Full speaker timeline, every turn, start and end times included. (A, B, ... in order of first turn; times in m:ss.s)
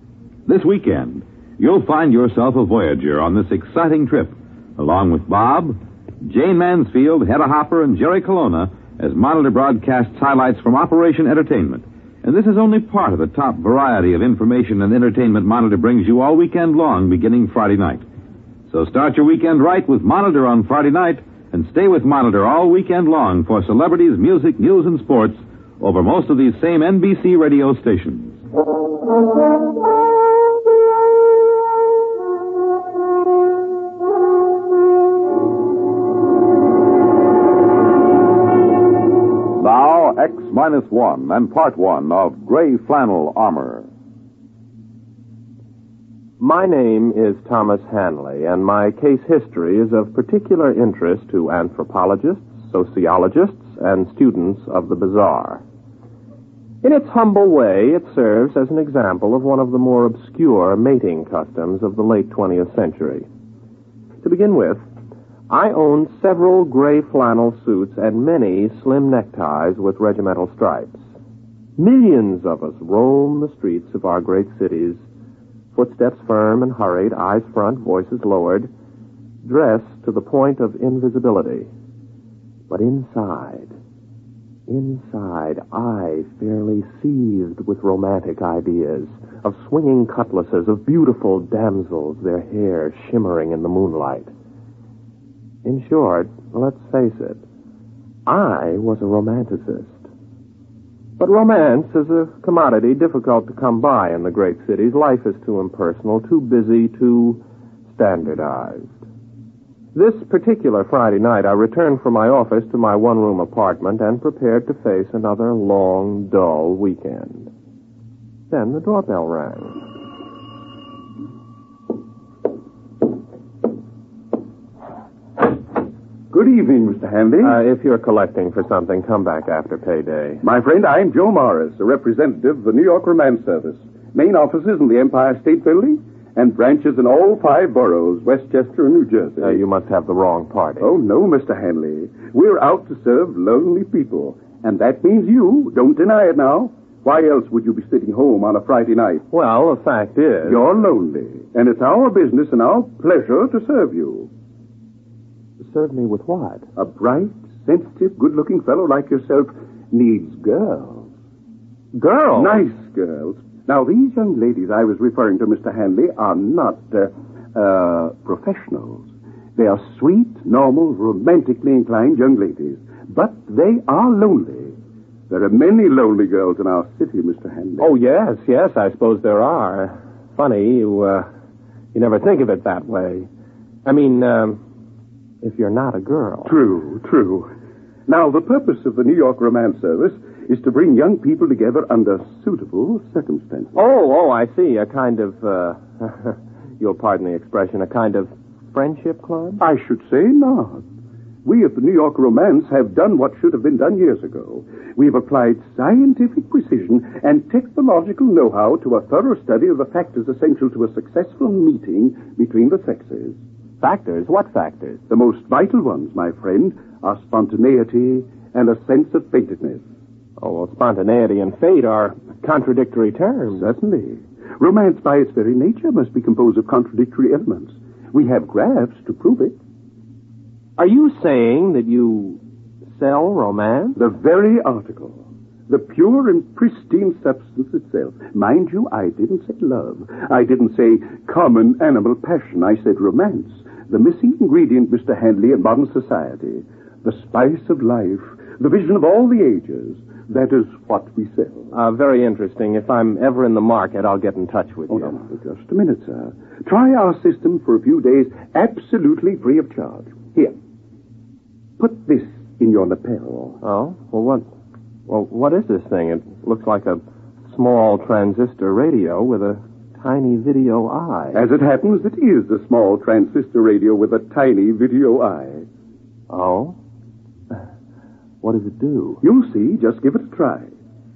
0:00.5-0:18.0 A
0:18.7-0:28.4 A
0:39.6-0:43.9 A
0:46.4-0:55.6 B
0:56.8-1:03.3 B
1:04.2-1:04.9 B
1:05.5-1:11.1 B
1:11.8-1:15.0 B
1:15.8-1:18.7 B
1:19.4-1:21.7 B
1:22.7-1:23.8 B
1:24.7-1:34.3 B
1:35.6-1:37.4 B
1:38.3-1:40.1 B
1:41.2-1:49.0 B
1:49.9-1:57.5 B
1:58.5-1:59.8 B
2:06.3-2:07.6 C
2:07.4-2:10.4 B
2:10.4-2:19.6 C
2:19.4-2:20.9 B
2:20.8-2:29.2 C
2:29.3-2:30.6 B
2:30.4-2:34.3 C
2:35.6-2:36.7 B
2:36.8-2:41.1 C
2:41.9-2:42.7 B
2:42.4-2:54.8 C
2:55.3-2:58.0 C
2:57.8-3:01.3 B
3:01.9-3:03.3 B
3:03.8-3:04.6 B
3:05.4-3:06.6 B
3:06.4-3:07.5 C
3:08.1-3:13.8 C
3:13.8-3:19.6 B
3:19.6-3:20.8 C
3:21.4-3:33.4 C
3:33.8-3:35.0 B
3:35.1-3:39.8 C
3:40.4-3:43.7 B
3:43.5-3:49.6 C
3:50.8-3:52.4 B
3:53.0-3:54.0 B
3:54.0-4:11.7 C
4:11.7-4:15.2 B
4:14.9-4:20.6 C
4:21.8-4:23.6 C
4:23.6-4:24.5 B
4:25.1-4:31.4 B
4:31.3-4:35.7 C
4:36.3-4:36.8 B
4:38.4-4:39.2 B
4:39.2-4:40.7 C